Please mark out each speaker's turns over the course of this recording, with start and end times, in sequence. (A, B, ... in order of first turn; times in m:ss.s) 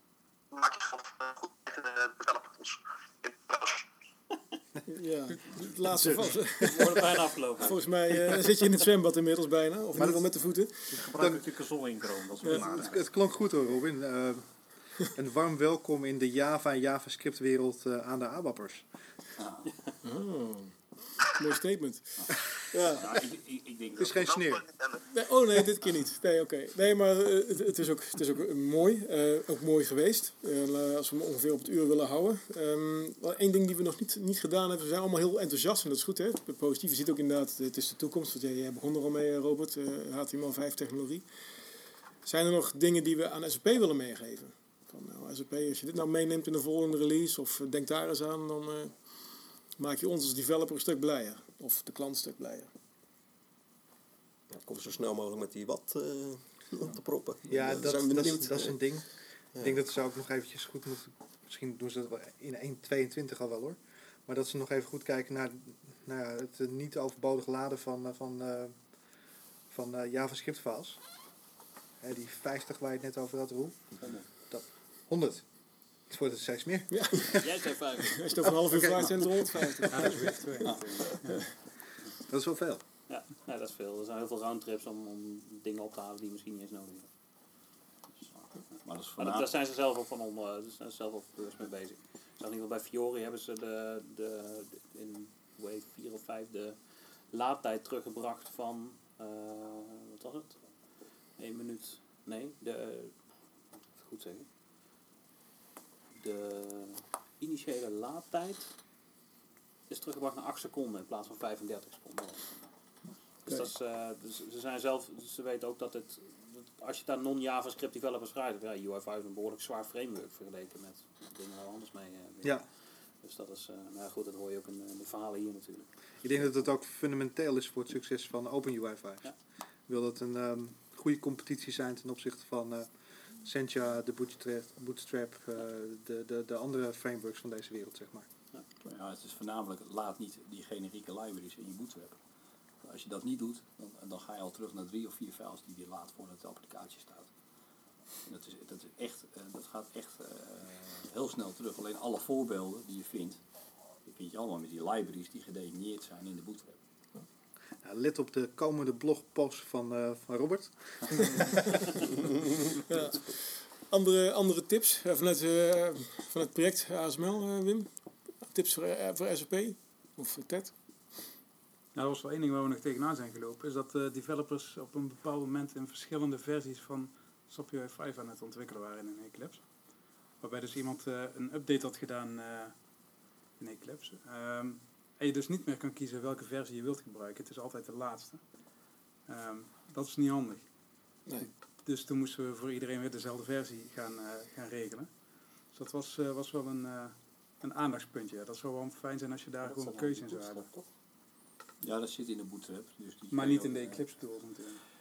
0:00.5-0:03.9 A
0:04.9-0:11.0 B
0:06.6-0:08.4 C
0:10.0-0:11.4 D
0:10.9-0:13.1 E
0:12.5-0:18.9 D
0:19.4-0:19.7 F
0:20.0-0:23.1 B
0:22.9-0:24.2 F
0:24.0-0:24.6 D
0:24.2-0:25.0 A
0:25.1-0:41.3 B
0:42.2-0:52.7 B
0:54.5-0:59.0 G
0:57.5-1:08.8 D
0:59.5-0:59.8 G
1:09.7-1:11.0 D
1:12.0-1:14.0 D
1:14.5-1:17.6 D
1:16.9-1:17.4 B
1:17.3-1:19.1 C
1:18.0-1:20.3 B
1:18.5-1:19.9 D
1:19.9-1:21.4 H
1:22.3-1:22.8 D
1:23.1-1:27.1 C
1:28.8-1:29.5 F
1:29.2-1:43.3 C
1:43.9-1:44.5 C
1:46.2-1:48.8 C
1:49.9-1:52.5 C
1:53.4-2:06.6 C
2:06.2-2:09.3 D
2:09.9-2:18.3 D
2:18.8-2:22.2 F
2:22.8-2:27.3 F
2:28.2-2:33.4 F
2:34.0-2:36.8 F
2:37.8-2:41.8 D
2:42.9-2:50.8 B
2:51.9-3:02.8 H
3:03.6-3:08.4 H
3:09.2-3:10.7 H
3:11.2-3:11.5 B
3:11.3-3:20.7 H
3:19.6-3:20.9 E
3:21.8-3:24.1 F
3:23.3-3:24.8 H